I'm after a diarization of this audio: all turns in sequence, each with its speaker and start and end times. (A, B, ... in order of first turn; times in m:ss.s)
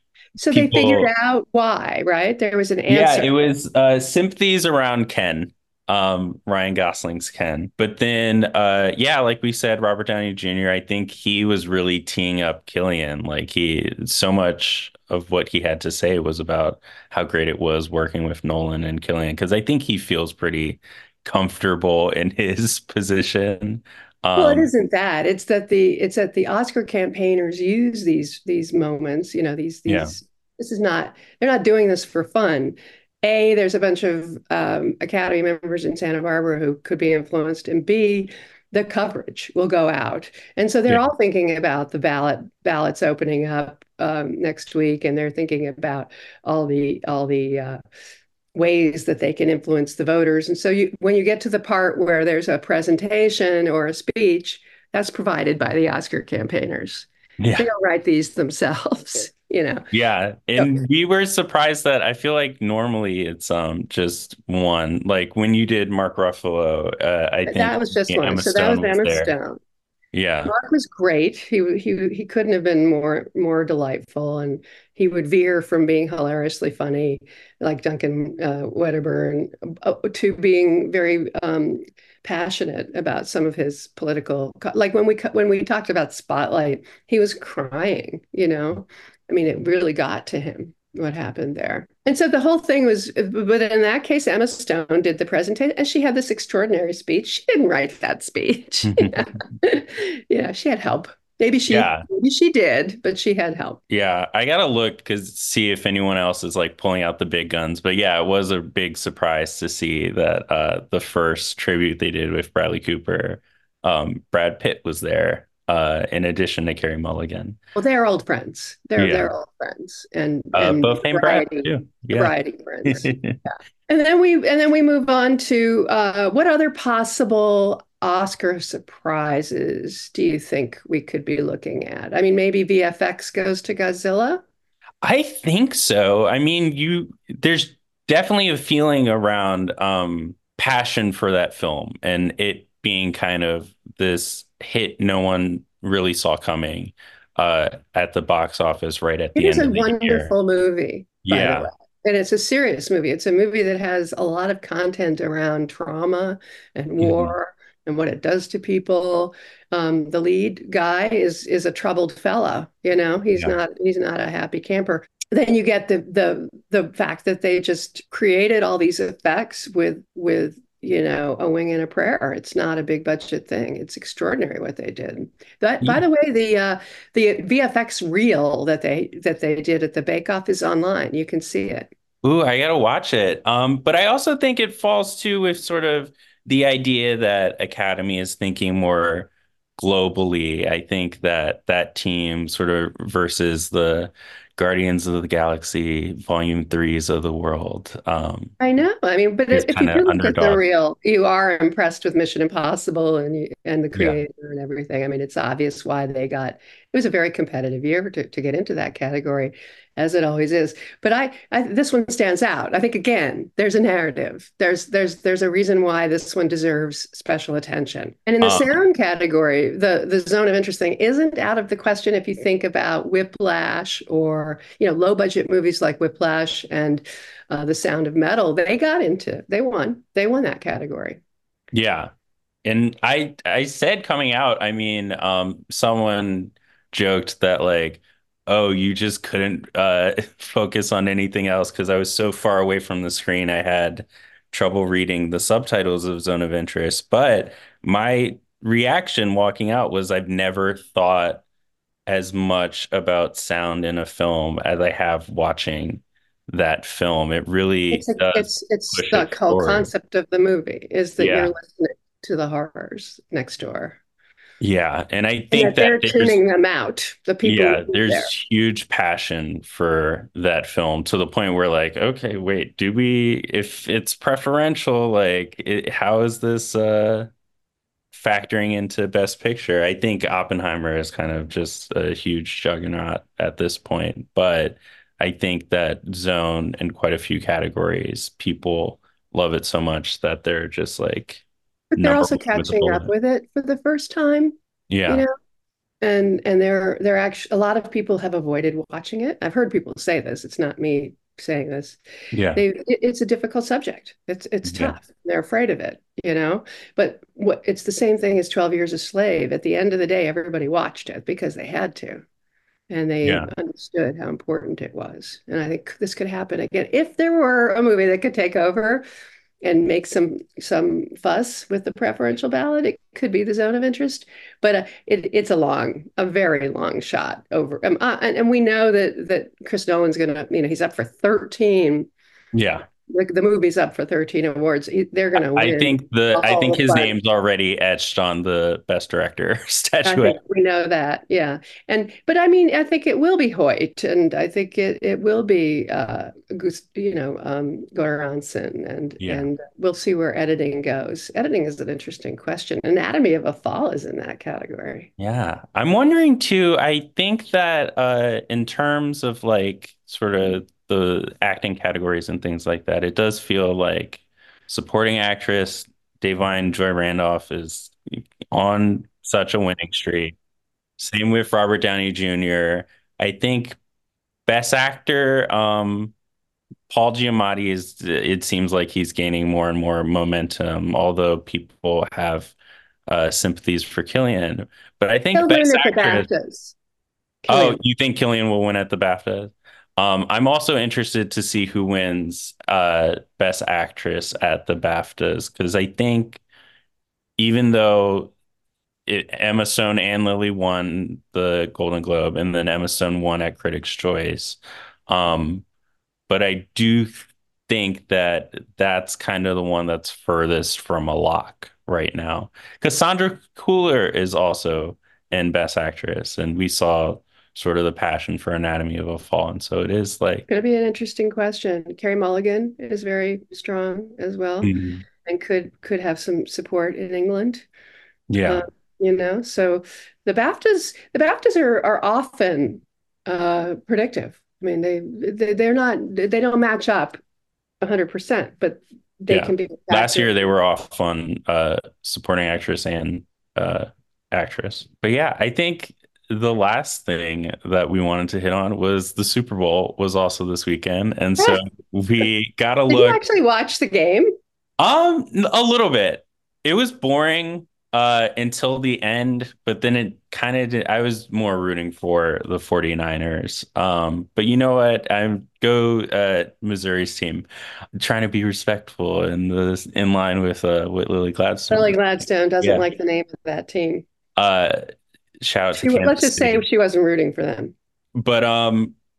0:00.4-0:03.3 A
0:00.5-0:01.1 B
0:02.9-0:24.7 B
0:24.4-0:47.8 A
0:29.9-0:30.1 B
0:48.6-0:59.9 A
0:57.4-0:57.7 B
0:59.9-1:09.3 B
1:07.5-1:09.6 A
1:10.1-1:10.5 B
1:10.5-1:43.8 A
1:38.8-1:39.2 B
1:41.7-1:42.0 B
1:43.9-1:57.6 B
1:57.8-2:14.4 A
1:59.0-1:59.3 B
2:00.5-2:02.3 B
2:02.8-2:03.4 B
2:15.0-2:30.3 B
2:29.4-3:01.9 A
2:31.2-2:31.7 B
2:37.0-2:37.3 B
3:02.2-3:18.5 B
3:18.6-3:51.2 A
3:19.5-3:20.6 B
3:24.0-3:24.2 B
3:38.4-3:38.8 B
3:51.7-3:52.1 B
3:52.6-4:11.4 B
4:12.1-4:19.9 B
4:17.9-4:24.0 A
4:21.2-4:21.5 B
4:24.6-4:26.4 B
4:25.5-4:28.3 A
4:27.4-4:37.3 B
4:38.1-4:51.4 B
4:51.9-4:54.6 A
4:52.0-4:53.1 B
4:54.9-4:55.2 B
4:56.0-5:02.0 A
5:02.3-5:02.6 B
5:02.5-5:12.2 A
5:04.7-5:05.0 B
5:12.9-5:19.0 A
5:13.2-5:13.5 B
5:19.6-5:32.1 A
5:32.5-5:32.9 B
5:33.1-5:37.2 A
5:35.5-5:40.4 B
5:40.0-5:55.1 A
5:49.2-5:49.5 B
5:55.2-6:10.4 B
6:11.0-6:13.8 B
6:14.5-6:16.1 B
6:16.9-6:22.5 B
6:23.1-6:26.3 B
6:25.3-6:26.8 A
6:27.4-6:27.8 A
6:27.5-6:36.4 B
6:37.4-6:38.3 B
6:39.1-6:45.6 B
6:46.3-7:00.5 B
7:00.5-7:07.7 A
7:04.6-7:05.0 B
7:08.3-7:08.6 B
7:08.4-7:17.2 A
7:17.8-7:20.3 A
7:19.3-7:33.2 B
7:32.9-7:34.3 A
7:34.8-7:52.0 B
7:51.7-7:54.1 A
7:54.4-7:54.8 B
7:55.4-7:56.6 B
7:55.8-7:57.7 A
7:58.2-7:59.0 B